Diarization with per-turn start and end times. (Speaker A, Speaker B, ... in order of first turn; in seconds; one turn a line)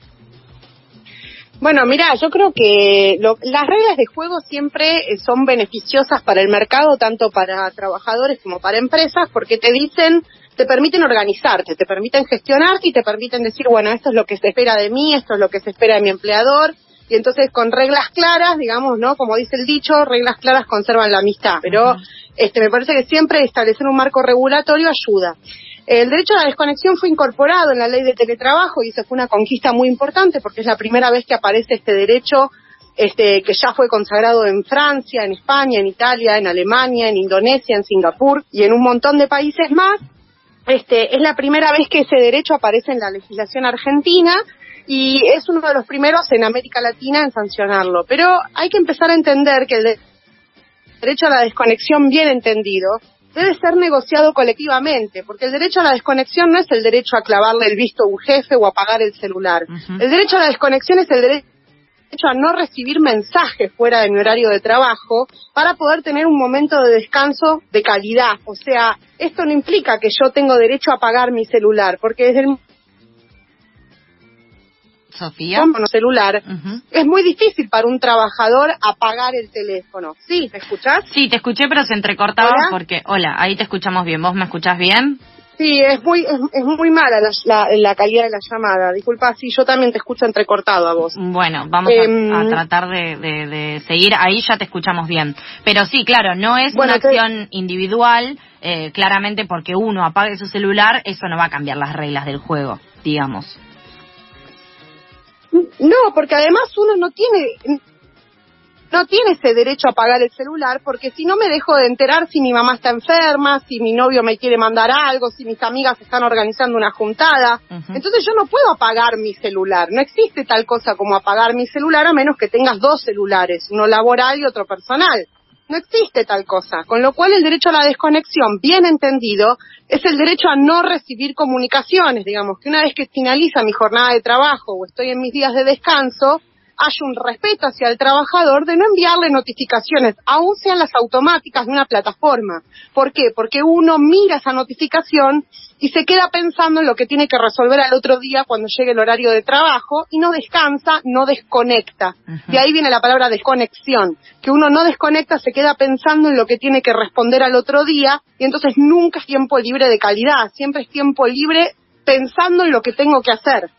Speaker A: 1.6-25.4
Speaker A: 25.9-40.0
Speaker A: 40.7-50.0
Speaker A: 51.0-61.4
Speaker A: 62.1-72.6
Speaker B: 75.1-75.7
Speaker A: 75.5-81.1
Speaker B: 81.1-85.2
Speaker A: 82.4-82.7
Speaker A: 85.6-91.2
Speaker B: 91.2-103.6
Speaker A: 91.8-92.6
Speaker A: 96.7-97.2
Speaker A: 105.5-107.8
Speaker A: 108.9-163.7
Speaker B: 117.7-118.0